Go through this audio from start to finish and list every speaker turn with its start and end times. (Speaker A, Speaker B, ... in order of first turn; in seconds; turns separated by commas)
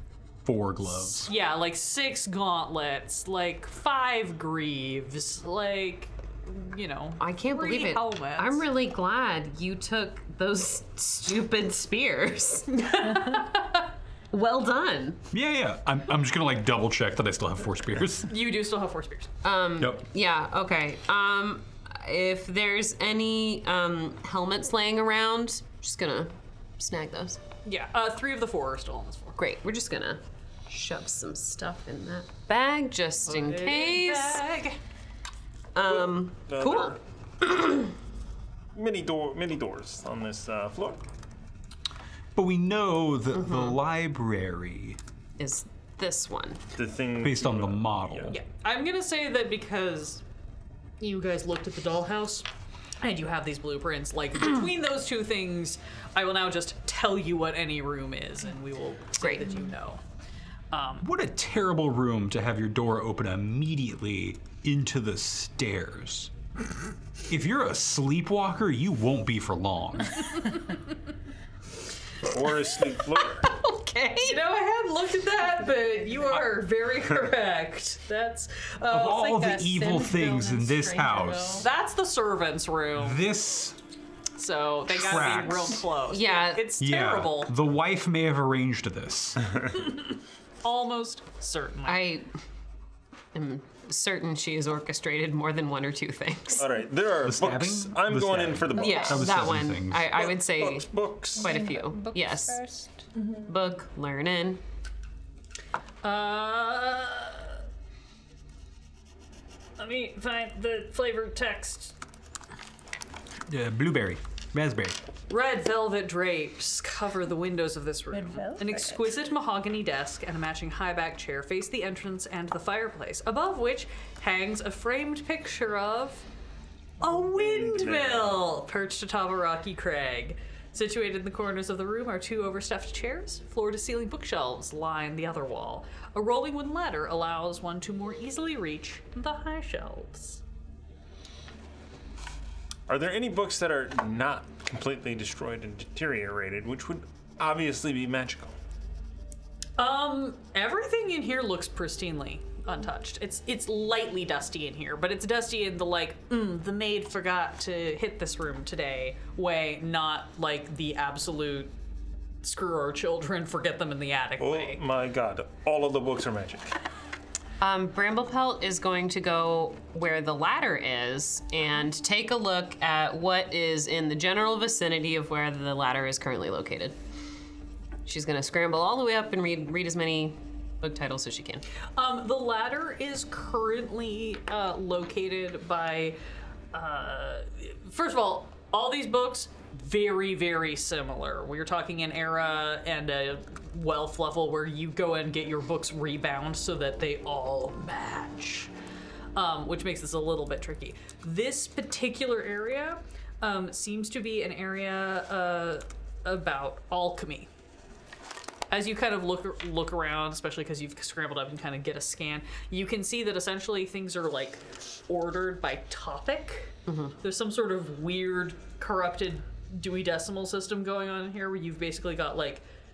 Speaker A: 0.4-1.3, Speaker B: 1.1-8.7, Speaker C: 7.2-13.4, Speaker B: 12.7-13.8, Speaker C: 14.3-15.2, Speaker A: 15.3-18.3, Speaker B: 18.2-19.3, Speaker C: 19.4-27.4, Speaker A: 19.8-20.1, Speaker B: 27.6-29.4, Speaker C: 29.4-34.4, Speaker B: 33.2-34.8, Speaker C: 35.7-37.9, Speaker D: 35.9-37.0, Speaker D: 38.7-41.0, Speaker A: 42.3-45.0, Speaker C: 43.4-43.7, Speaker C: 45.4-46.6, Speaker D: 46.8-48.3, Speaker A: 47.2-48.4, Speaker B: 48.3-50.2, Speaker B: 51.0-52.5, Speaker B: 53.0-60.0, Speaker C: 59.2-59.6, Speaker B: 60.7-61.1, Speaker A: 61.0-66.3, Speaker A: 67.3-70.4, Speaker D: 72.2-73.5, Speaker C: 72.9-74.4, Speaker B: 74.2-79.3, Speaker A: 78.9-81.6, Speaker E: 79.0-81.7, Speaker B: 81.6-83.2, Speaker A: 83.0-83.8, Speaker B: 84.4-87.5, Speaker A: 84.9-85.9, Speaker C: 86.0-86.7, Speaker A: 86.8-89.5, Speaker B: 90.6-92.1, Speaker C: 91.9-92.3, Speaker C: 93.3-96.7, Speaker D: 96.6-99.4, Speaker A: 97.2-100.1, Speaker C: 98.7-102.6, Speaker D: 100.1-101.6, Speaker E: 101.4-103.1, Speaker C: 103.5-104.6, Speaker B: 106.0-107.6, Speaker B: 109.8-112.0, Speaker A: 113.5-115.0, Speaker B: 115.3-126.2, Speaker E: 118.1-119.1, Speaker B: 127.0-140.4, Speaker D: 127.0-128.4, Speaker D: 142.9-148.6, Speaker B: 149.8-161.7, Speaker B: 162.4-164.8, Speaker D: 164.4-166.7, Speaker C: 167.6-176.9, Speaker C: 178.1-181.6, Speaker B: 181.9-186.2, Speaker B: 186.7-198.7, Speaker B: 199.3-207.5, Speaker B: 208.7-222.6, Speaker C: 216.9-217.1